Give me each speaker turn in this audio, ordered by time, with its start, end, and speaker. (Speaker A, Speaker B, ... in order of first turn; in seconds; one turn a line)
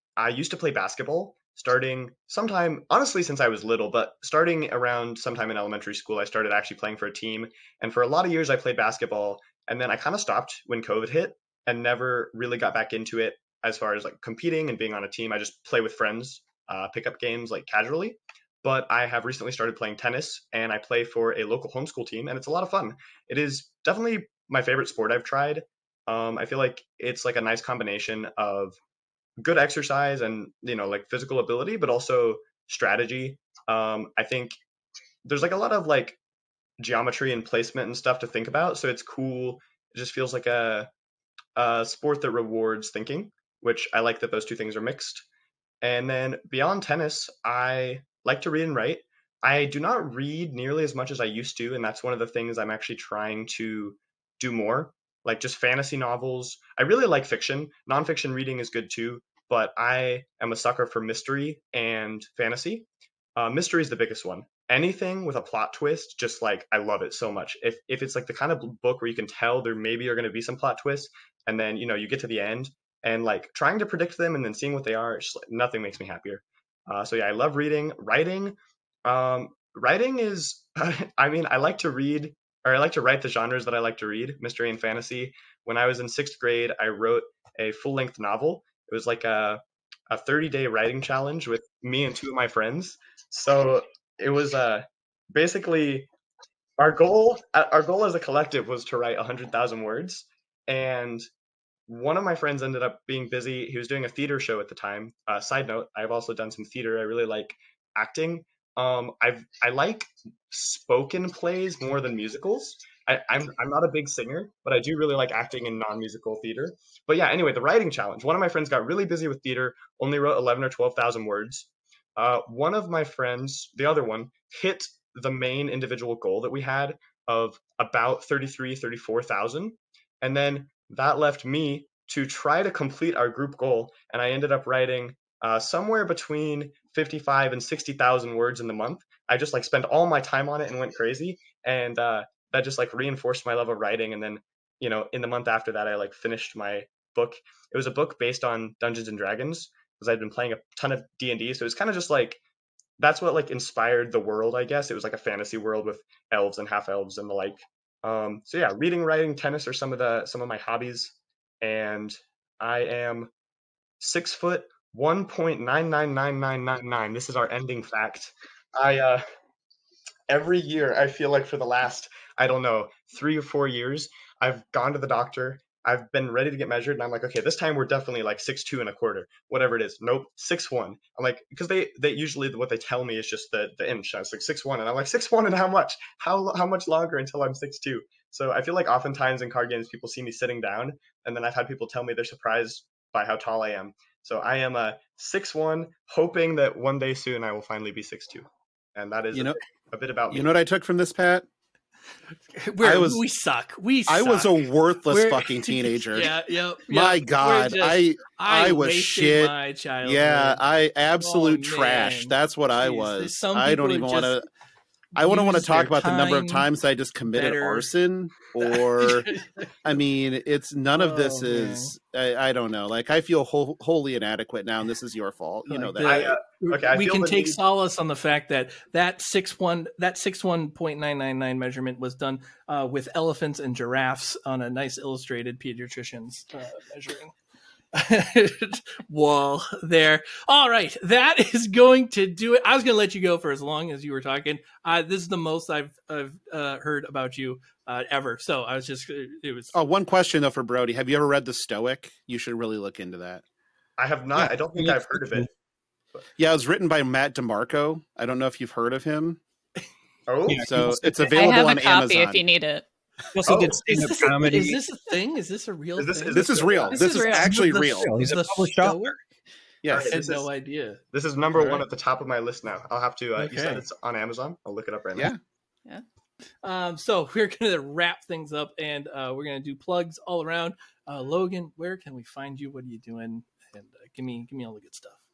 Speaker A: 0.2-28.8
Speaker A: 29.4-34.6
Speaker A: 35.3-36.2
Speaker A: 36.8-40.9
Speaker A: 41.6-45.3
Speaker A: 45.8-96.1
Speaker A: 96.8-101.3
Speaker A: 101.9-152.4
Speaker A: 153.0-163.3
Speaker A: 164.0-169.2
Speaker A: 170.3-200.5
Speaker B: 200.3-201.4
Speaker C: 202.5-210.6
Speaker B: 202.8-203.2
Speaker B: 204.1-206.3
Speaker B: 206.9-214.4
Speaker C: 211.2-214.4
Speaker B: 215.2-219.3
Speaker C: 215.2-216.7
Speaker C: 217.3-217.9
Speaker C: 218.6-219.7
Speaker B: 219.8-226.3
Speaker C: 220.9-221.9
Speaker C: 225.7-237.3
Speaker A: 226.0-227.6
Speaker C: 237.9-249.8
Speaker B: 249.7-253.4
Speaker A: 254.0-255.5
Speaker D: 254.4-255.5
Speaker B: 256.4-259.4
Speaker A: 260.3-260.7
Speaker D: 260.5-261.1
Speaker B: 260.6-262.4
Speaker E: 261.2-262.9
Speaker D: 263.3-264.8
Speaker A: 263.4-263.8
Speaker C: 263.9-269.2
Speaker A: 266.0-266.7
Speaker B: 266.3-268.1
Speaker E: 266.9-267.5
Speaker D: 267.5-269.1
Speaker B: 269.8-270.4
Speaker A: 269.9-270.2
Speaker C: 270.1-271.0
Speaker A: 271.1-275.3
Speaker C: 273.4-273.9
Speaker C: 276.6-285.2